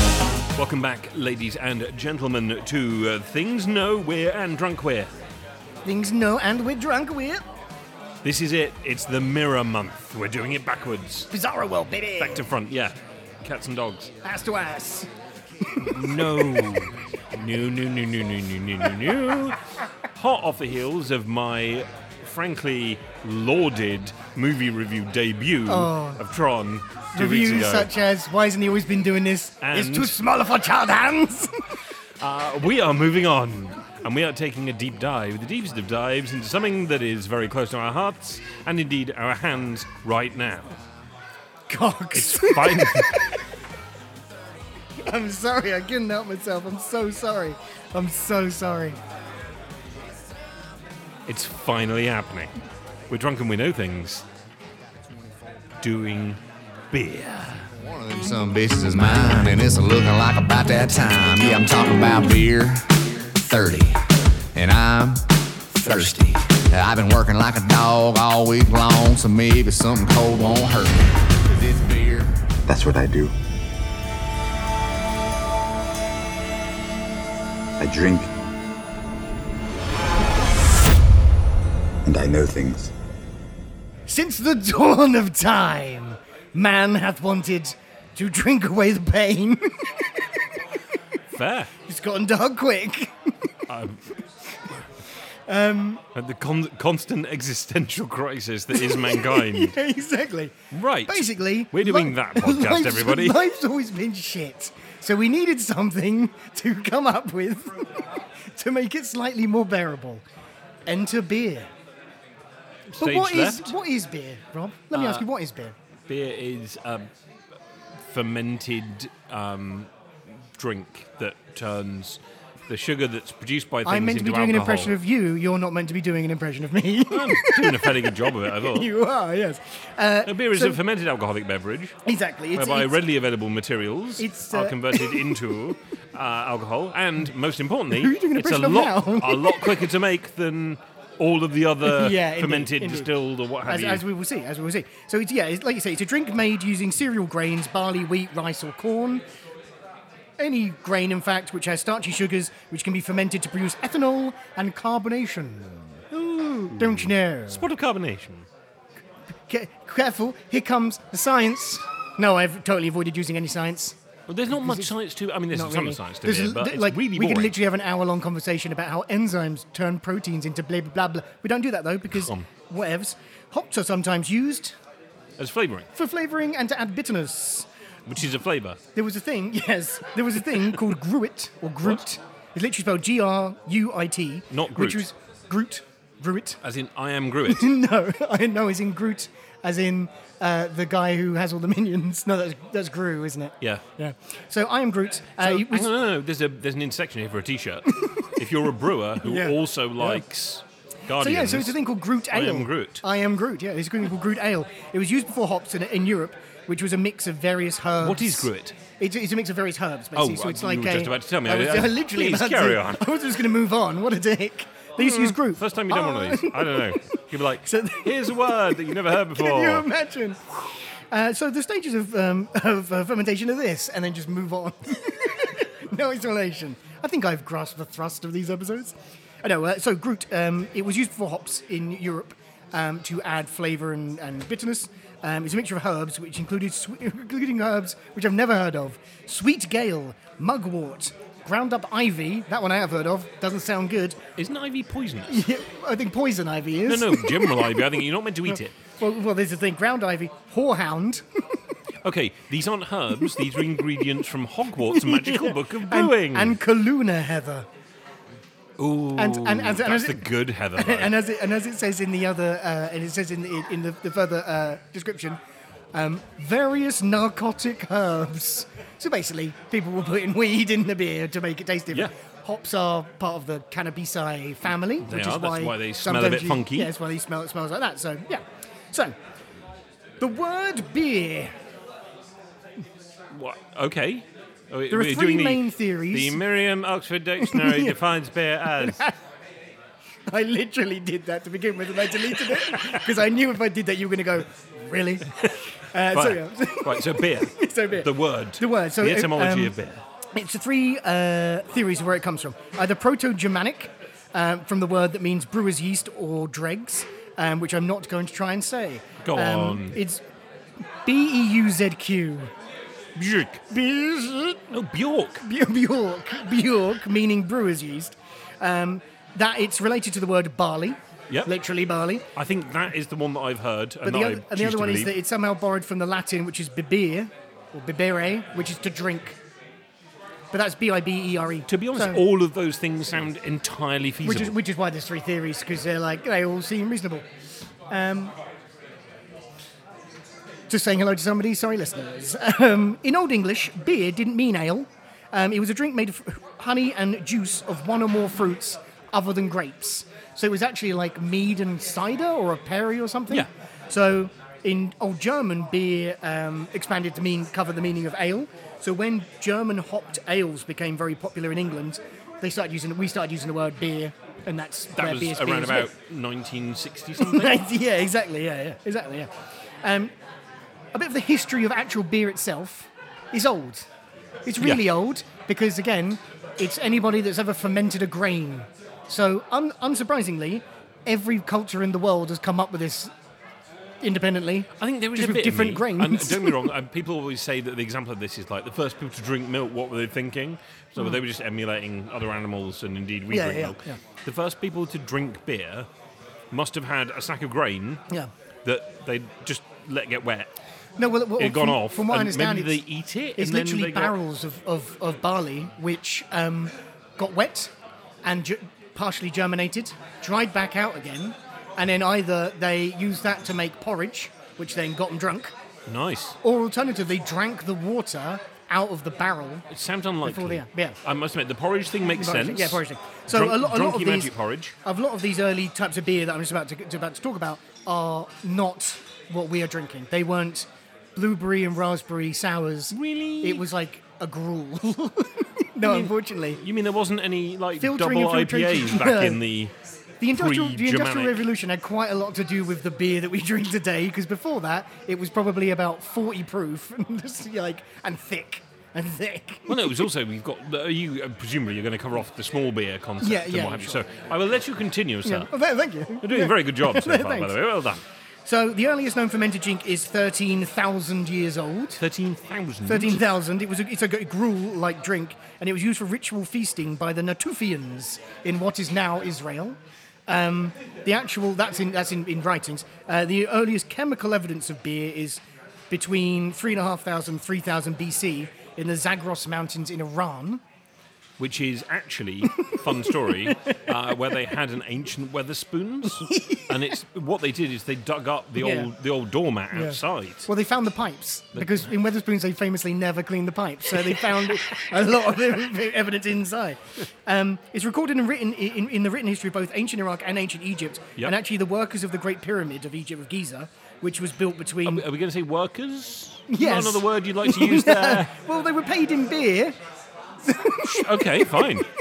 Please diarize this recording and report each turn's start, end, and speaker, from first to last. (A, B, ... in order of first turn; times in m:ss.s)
0:00.6-0:05.1 A
0:05.8-0:07.4 B
0:08.2-0:11.3 A
0:11.3-0:12.5 B
0:12.2-0:14.1 A
0:14.2-0:15.1 B
0:15.7-0:16.6 B
0:15.8-0:19.6 A
0:20.1-0:27.9 A
0:25.7-0:26.2 B
0:27.1-0:31.6 B
0:29.6-0:30.2 A
0:32.2-0:40.7 A
0:41.7-0:43.4 B
0:42.1-0:43.3 A
0:45.0-0:49.0 B
0:51.3-0:52.6 A
0:53.1-0:54.2 A
0:55.8-0:56.4 A
0:56.9-0:57.7 A
0:57.7-1:12.5 C
1:12.7-1:13.3 D
1:17.8-1:18.3 D
1:22.0-1:22.9 D
1:24.1-1:30.1 B
1:31.3-1:31.7 A
1:31.8-1:33.5 B
1:33.7-1:34.1 A
1:35.5-1:36.0 B
1:36.1-1:39.8 A
1:38.7-1:50.2 B
1:40.7-1:43.4 A
1:50.9-1:51.7 B
1:52.9-1:53.7 A
1:53.0-1:55.7 B
1:54.9-1:55.2 A
1:56.1-1:57.1 A
1:58.1-1:59.9 A
2:00.6-2:04.9 A
2:03.8-2:10.8 B
2:07.1-2:08.9 A
2:10.2-2:12.0 A
2:12.0-2:13.0 B
2:12.6-2:24.0 A
2:14.2-2:15.3 B
2:17.9-2:19.8 B
2:21.8-2:23.1 B
2:23.6-2:29.2 B
2:30.4-2:35.9 B
2:36.1-2:38.5 A
2:36.6-2:37.6 B
2:39.5-2:44.0 B
2:44.3-2:47.6 A
2:44.5-2:44.9 B
2:45.5-2:54.7 B
2:52.1-2:52.4 A
2:55.4-2:55.9 A
2:55.9-2:57.7 B
2:58.1-2:58.8 A
2:58.9-3:06.6 B
3:04.5-3:05.0 A
3:06.6-3:07.7 A
3:07.5-3:15.9 B
3:15.4-3:21.8 A
3:18.0-3:18.3 B
3:19.2-3:20.2 B
3:21.2-4:04.2 B
3:22.3-3:23.0 A
3:28.0-3:28.8 A
3:30.1-3:33.1 A
3:35.0-3:39.8 A
4:04.4-4:05.4 A
4:05.3-4:07.8 B
4:06.8-4:08.8 A
4:09.0-4:11.2 B
4:12.0-4:16.6 A
4:14.8-4:17.7 B
4:18.8-4:21.1 A
4:19.2-4:25.4 B
4:25.9-4:39.2 B
4:35.0-4:36.9 A
4:40.2-4:41.5 B
4:43.3-4:49.0 A
4:44.9-4:46.4 B
4:47.4-4:48.0 B
4:48.8-4:49.2 B
4:50.3-4:55.4 B
4:52.4-4:53.0 A
4:55.9-4:59.7 B
4:56.1-5:00.0 A
5:00.3-5:10.2 B
5:09.2-5:10.0 A
5:11.0-5:12.5 B
5:13.2-5:13.6 A
5:13.7-5:14.7 B
5:14.7-5:15.4 A
5:15.4-5:22.2 B
5:22.3-5:25.1 A
5:24.0-5:29.4 B
5:30.5-5:32.2 B
5:31.7-5:34.6 A
5:34.2-5:37.2 B
5:37.9-5:38.3 B
5:40.7-6:05.9 B
6:05.0-6:07.6 A
6:07.2-6:09.3 B
6:09.8-6:10.1 B
6:10.9-6:13.9 B
6:14.4-6:23.1 B
6:24.0-6:26.7 B
6:24.8-6:35.9 A
6:33.3-6:34.0 B
6:36.5-6:38.0 A
6:38.6-6:40.5 A
6:41.0-6:42.8 B
6:41.4-6:44.2 A
6:43.4-6:47.7 B
6:48.2-6:55.5 B
6:55.9-6:56.4 A
6:56.4-6:59.7 B
6:59.7-7:04.7 A
7:00.2-7:01.0 B
7:02.2-7:04.3 B
7:04.8-7:16.6 B
7:12.9-7:13.6 A
7:15.8-7:19.7 A
7:17.8-7:19.4 B
7:20.2-7:30.1 B
7:20.3-7:21.4 A
7:29.7-7:35.5 A
7:33.2-7:34.0 B
7:35.2-7:37.5 B
7:36.2-7:38.0 A
7:38.5-7:42.0 B
7:42.0-7:43.2 A
7:42.9-8:00.6 B
8:01.4-8:10.5 A
8:02.6-8:03.8 B
8:06.2-8:06.9 B
8:08.6-8:08.9 B
8:09.7-8:25.0 B
8:14.0-8:14.8 A
8:24.8-8:28.3 A
8:26.5-8:29.8 B
8:30.4-8:31.8 B
8:30.8-8:31.9 A